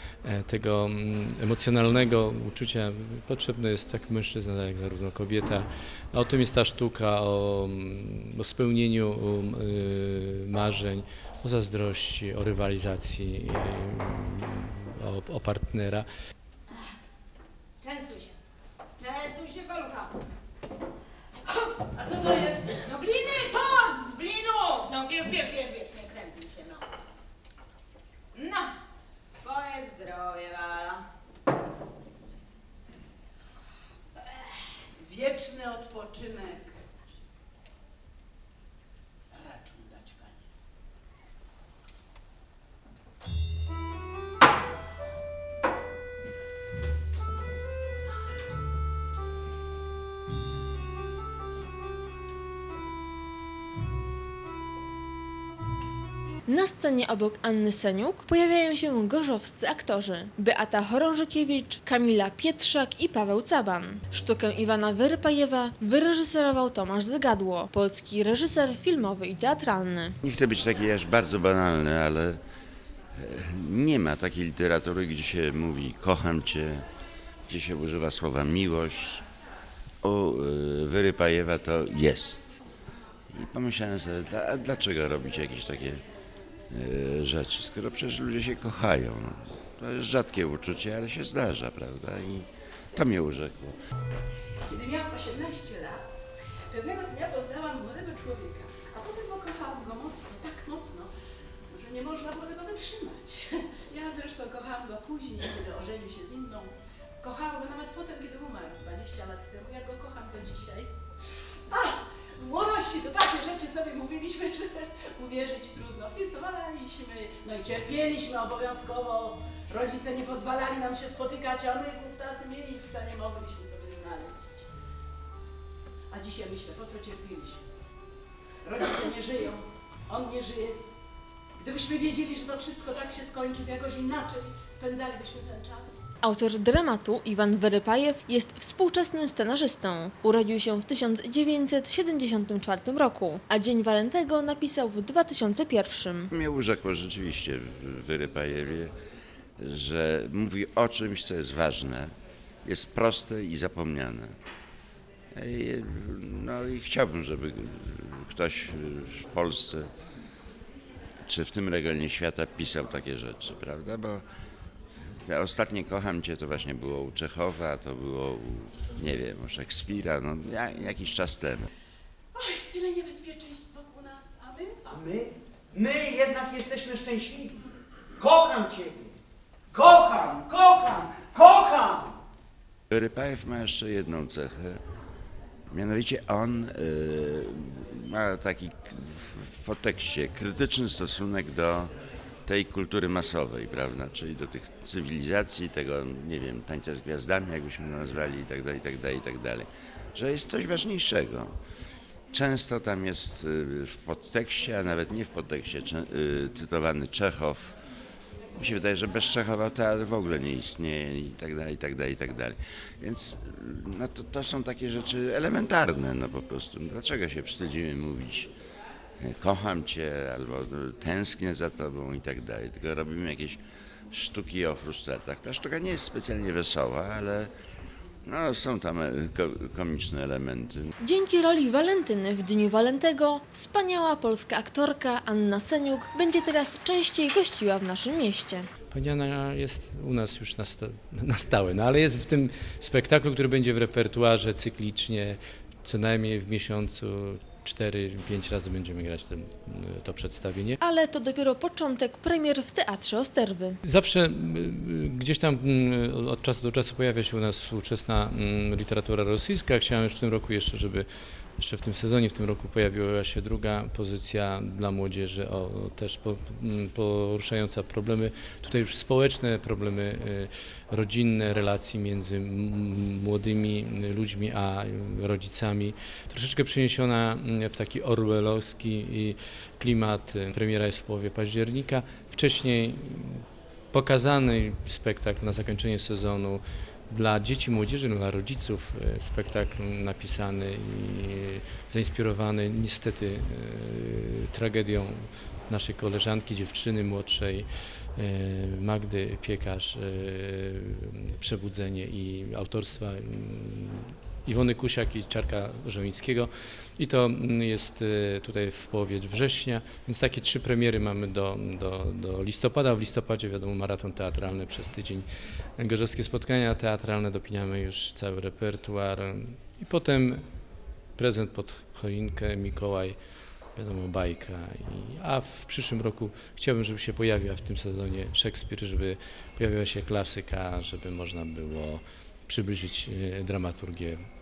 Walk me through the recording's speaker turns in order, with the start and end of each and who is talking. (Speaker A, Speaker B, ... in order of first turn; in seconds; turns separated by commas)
Speaker A: 0.2-16.1, Speaker B: 17.8-18.3, Speaker B: 19.0-20.1, Speaker C: 21.9-22.9, Speaker B: 22.9-26.9, Speaker B: 28.3-28.8, Speaker B: 29.4-31.0, Speaker C: 35.0-36.8, Speaker C: 39.3-40.4, Speaker D: 56.5-70.2, Speaker E: 70.2-72.4, Speaker E: 73.1-76.8, Speaker E: 77.5-79.2, Speaker E: 80.0-82.5, Speaker E: 83.3-86.0, Speaker E: 86.7-93.8, Speaker C: 94.7-96.0, Speaker C: 96.7-101.1, Speaker C: 101.7-110.9, Speaker C: 111.7-124.7, Speaker C: 126.1-127.6, Speaker C: 128.6-130.8, Speaker C: 131.6-136.0, Speaker D: 136.2-146.3, Speaker E: 146.3-148.9, Speaker E: 149.6-152.1, Speaker E: 152.6-154.3, Speaker E: 155.3-159.9, Speaker E: 161.3-164.2, Speaker E: 165.2-171.7, Speaker C: 172.3-174.8, Speaker F: 174.9-177.6, Speaker F: 178.2-179.1, Speaker F: 179.7-182.2, Speaker E: 182.9-184.8, Speaker E: 185.7-191.9, Speaker E: 192.4-201.5, Speaker E: 202.3-207.8, Speaker E: 208.6-218.5, Speaker E: 219.2-227.5, Speaker E: 228.2-230.9, Speaker D: 231.0-238.7, Speaker A: 238.9-250.8, Speaker D: 250.8-253.8, Speaker A: 253.8-261.1, Speaker A: 261.6-315.2, Speaker A: 315.8-320.4, Speaker A: 321.1-323.1, Speaker A: 323.7-334.2